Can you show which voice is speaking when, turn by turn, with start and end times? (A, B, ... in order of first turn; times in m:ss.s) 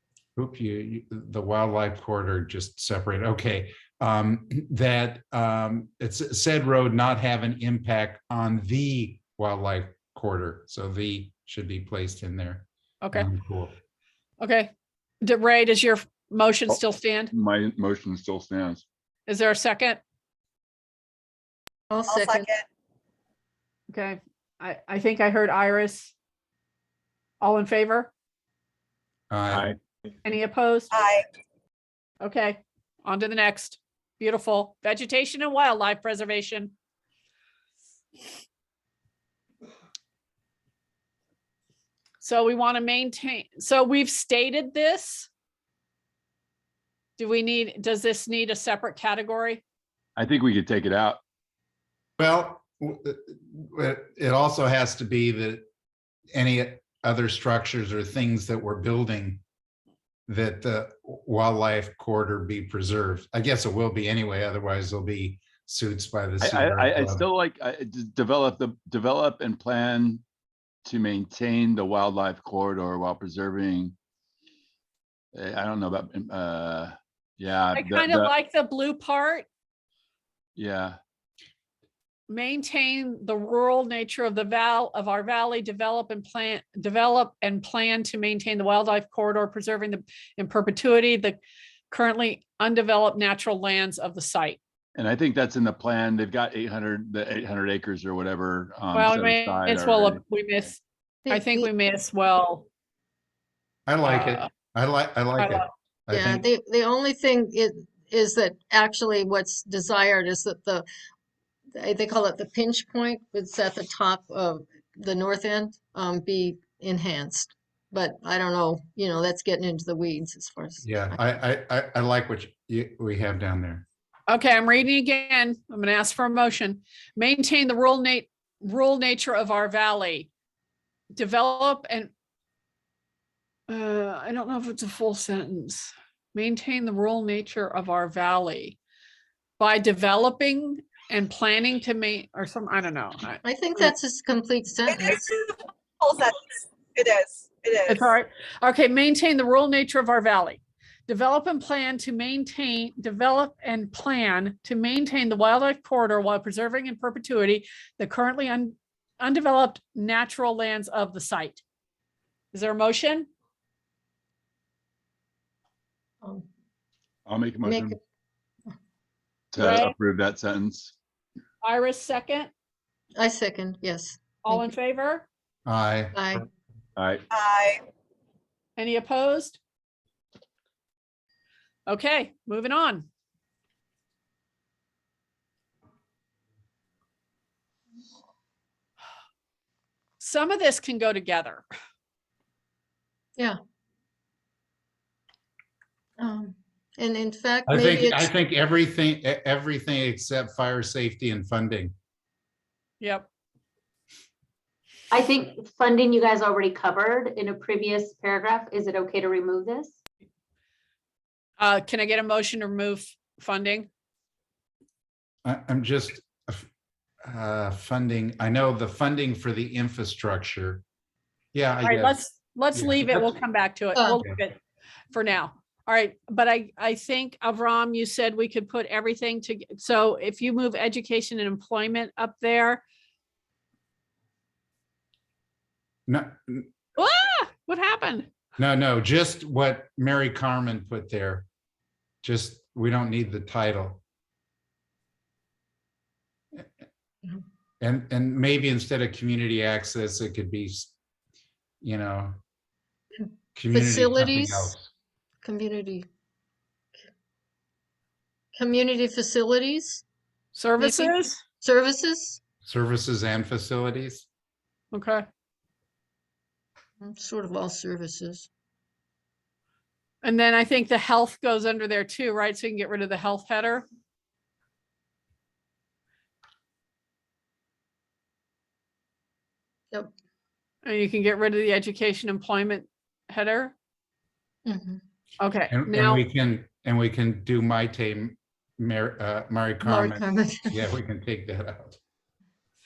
0:00.4-0:13.7 A
0:13.0-0:13.3 B
0:14.4-0:14.7 B
0:15.2-0:17.3 B
0:17.3-0:18.8 C
0:19.3-0:20.0 B
0:21.9-0:22.5 D
0:22.1-0:22.6 E
0:23.9-0:26.1 B
0:27.4-0:28.1 B
0:29.3-0:29.7 A
0:29.5-0:29.8 C
0:30.2-0:30.9 B
0:30.9-0:31.2 E
0:32.2-0:36.7 B
0:42.2-0:45.3 B
0:47.2-0:49.6 B
0:50.2-0:51.2 C
0:52.2-0:55.6 A
0:56.3-0:59.4 A
1:00.3-1:07.2 A
1:06.4-1:10.2 C
1:10.8-1:13.9 C
1:15.3-1:18.3 C
1:17.7-1:19.5 B
1:20.6-1:21.0 C
1:22.3-1:31.4 B
1:31.9-1:34.6 B
1:35.0-1:40.2 C
1:38.9-1:42.7 B
1:41.2-1:41.7 D
1:43.9-1:46.4 A
1:44.0-1:44.5 B
1:45.4-1:45.7 B
1:46.1-1:50.9 D
1:51.7-2:01.2 D
2:00.8-2:03.8 A
2:04.3-2:10.3 B
2:11.1-2:12.1 B
2:13.7-2:18.8 B
2:19.6-2:23.9 B
2:23.4-2:25.2 D
2:25.0-2:25.5 E
2:26.0-2:28.1 E
2:27.9-2:41.6 B
2:42.5-2:43.3 B
2:46.2-2:46.5 D
2:47.3-2:48.0 C
2:47.6-2:48.0 D
2:49.5-2:50.9 C
2:49.6-2:49.9 B
2:51.6-2:52.5 B
2:53.2-2:54.7 D
2:54.4-2:55.3 B
2:55.6-2:56.2 A
2:56.1-2:56.5 D
2:57.0-2:57.2 C
2:57.3-2:57.8 E
2:58.8-2:59.6 B
3:01.9-3:03.1 B
3:10.2-3:11.6 B
3:16.2-3:18.3 D
3:17.7-3:21.9 A
3:23.0-3:23.3 B
3:25.1-3:29.9 F
3:31.6-3:33.9 B
3:35.4-3:36.7 A
3:37.2-3:40.8 A
3:41.5-3:42.2 A
3:41.8-3:44.6 B
3:42.7-3:43.3 A
3:44.0-3:44.2 D
3:45.1-3:52.8 B
3:56.1-3:56.7 A
3:57.0-3:58.3 B
3:58.6-4:01.4 A
4:02.2-4:04.0 A
4:07.8-4:10.9 A
4:11.8-4:12.4 A
4:13.5-4:14.9 A
4:13.7-4:14.7 D
4:15.4-4:16.0 D
4:18.5-4:20.0 D
4:20.5-4:21.4 B
4:20.8-4:22.4 D
4:22.6-4:24.3 A
4:24.9-4:25.2 B
4:27.0-4:28.5 D
4:30.2-4:33.8 B
4:40.8-4:43.7 B
4:44.6-4:45.0 D
4:45.4-4:46.2 B
4:45.7-4:52.0 A
4:49.8-4:50.8 D